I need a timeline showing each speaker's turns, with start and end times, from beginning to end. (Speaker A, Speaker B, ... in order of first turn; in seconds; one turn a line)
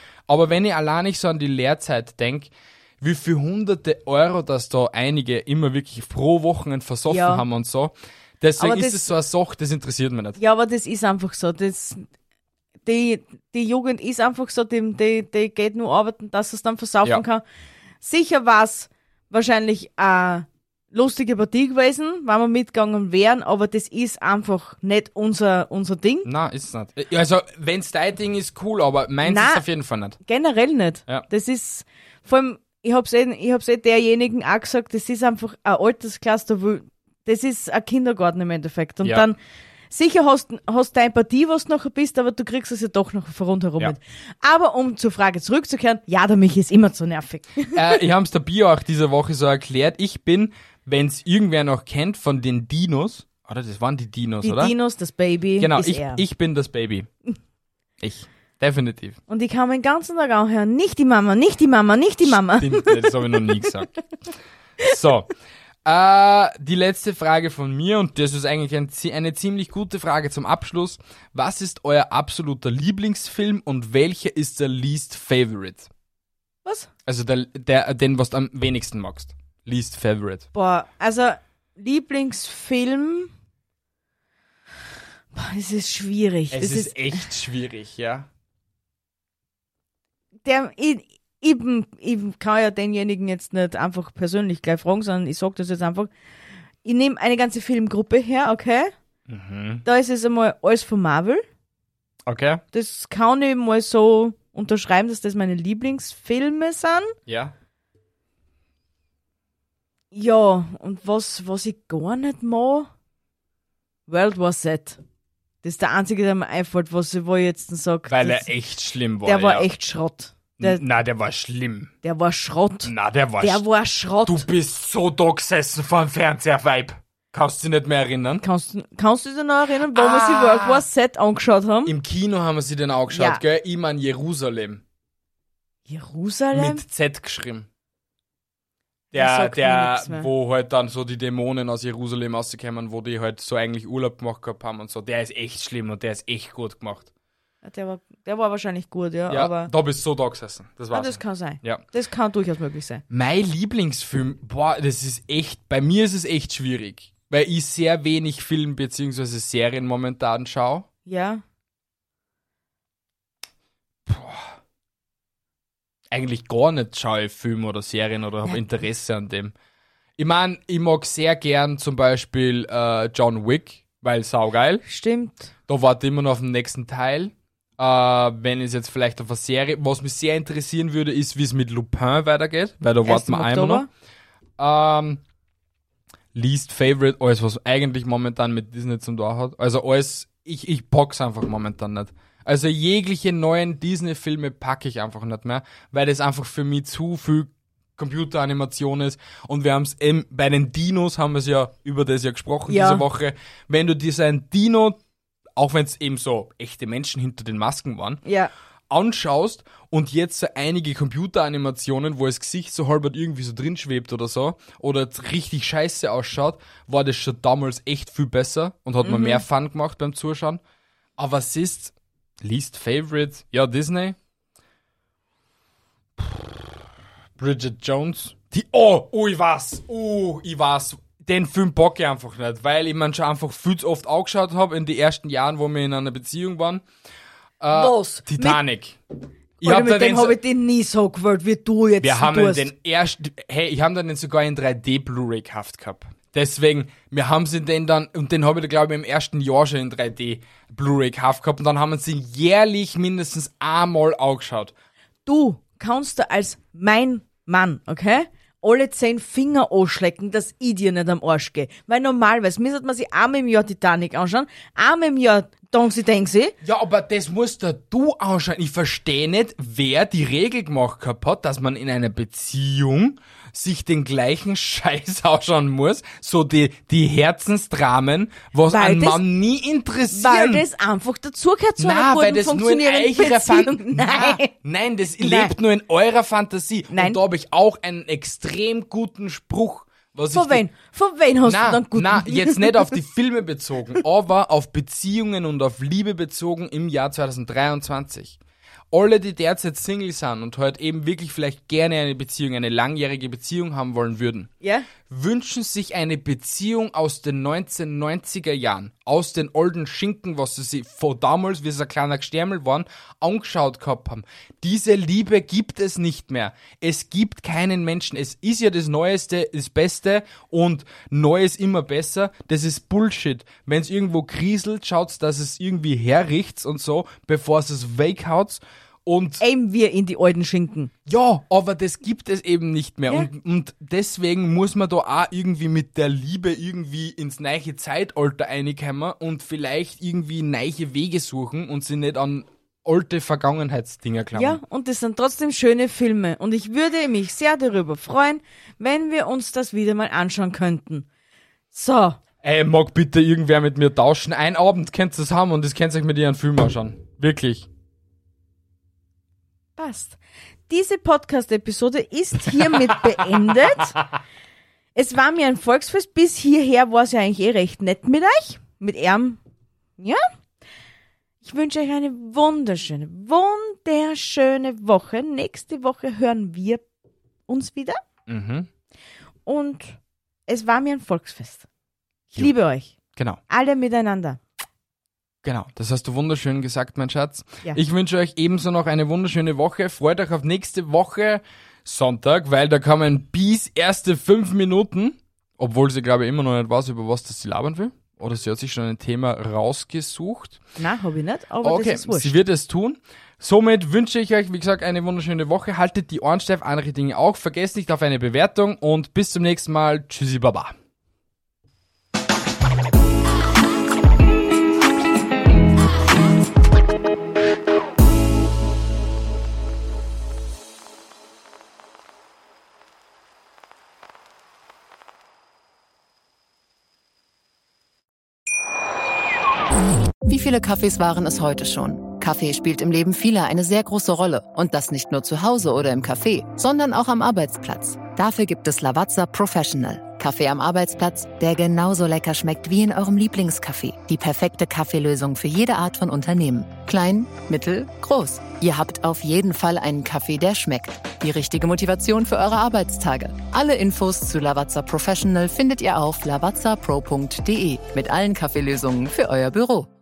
Speaker A: 0.3-10.4
Speaker B: 7.1-7.4
Speaker B: 8.6-9.1
Speaker B: 10.4-12.1
Speaker B: 12.8-17.4
Speaker B: 18.0-26.3
Speaker A: 26.2-30.2
Speaker B: 29.2-29.6
Speaker B: 30.2-39.4
Speaker B: 39.9-48.0
Speaker A: 47.7-54.8
Speaker B: 54.4-56.2
Speaker A: 55.6-57.1
Speaker A: 58.0-59.2
Speaker B: 59.3-63.1
Speaker A: 62.2-63.9
Speaker A: 64.8-65.3
Speaker A: 65.8-75.9
Speaker A: 77.1-80.5
Speaker B: 80.5-83.3
Speaker B: 85.3-87.3
Speaker A: 86.5-88.3
Speaker B: 90.5-96.1
Speaker B: 96.8-98.9
Speaker A: 99.3-99.8
Speaker B: 99.8-101.4
Speaker A: 102.3-102.6
Speaker B: 102.7-107.2
Speaker A: 107.3-107.5
Speaker B: 110.1-112.9
Speaker B: 114.1-115.0
Speaker B: 115.6-118.5
Speaker A: 118.1-119.7
Speaker B: 119.3-120.8
Speaker A: 120.6-121.9
Speaker B: 122.0-124.5
Speaker A: 122.8-123.6
Speaker A: 124.2-128.4
Speaker B: 128.4-131.9
Speaker A: 129.9-130.8
Speaker A: 131.9-134.8
Speaker B: 133.1-133.4
Speaker B: 135.9-136.8
Speaker A: 136.5-137.7
Speaker B: 139.1-140.3
Speaker A: 139.1-147.1
Speaker B: 147.6-149.7
Speaker A: 149.3-151.8
Speaker B: 150.9-153.0
Speaker A: 153.1-160.9
Speaker B: 161.1-161.4
Speaker A: 164.1-164.5
Speaker A: 166.1-169.5
Speaker A: 170.2-174.8
Speaker B: 174.8-175.5
Speaker A: 175.7-183.9
Speaker B: 183.1-183.9
Speaker A: 184.6-185.2
Speaker A: 186.3-205.0
Speaker B: 202.7-203.0
Speaker A: 205.6-208.2
Speaker B: 208.2-208.5
Speaker A: 208.9-220.6
Speaker B: 219.0-219.4
Speaker A: 221.2-224.2
Speaker A: 226.2-226.8
Speaker A: 227.4-236.8
Speaker A: 237.6-239.0
Speaker B: 237.7-238.6
Speaker A: 239.6-240.4
Speaker B: 239.6-242.7
Speaker A: 242.0-254.7
Speaker B: 255.3-266.5
Speaker A: 266.6-280.6
Speaker B: 278.7-279.2
Speaker B: 280.1-284.5
Speaker A: 281.8-290.6
Speaker B: 285.2-285.5
Speaker B: 286.9-287.2
Speaker B: 290.3-292.9
Speaker A: 291.5-298.4
Speaker A: 298.9-304.5
Speaker B: 304.6-304.9
Speaker A: 305.0-329.4
Speaker B: 329.4-330.9
Speaker A: 331.1-344.6
Speaker B: 344.3-351.1
Speaker B: 351.7-352.2
Speaker A: 352.4-357.7
Speaker B: 359.8-360.2
Speaker B: 360.7-363.9
Speaker A: 362.5-363.6
Speaker B: 364.9-369.4
Speaker B: 370.0-370.2
Speaker B: 371.4-376.8
Speaker B: 377.5-378.0
Speaker A: 378.3-378.7
Speaker B: 379.5-381.7
Speaker B: 382.3-383.0
Speaker A: 383.2-383.4
Speaker B: 383.5-384.4
Speaker A: 385.4-400.6
Speaker B: 400.8-402.4
Speaker A: 401.6-410.8
Speaker C: 430.2-459.9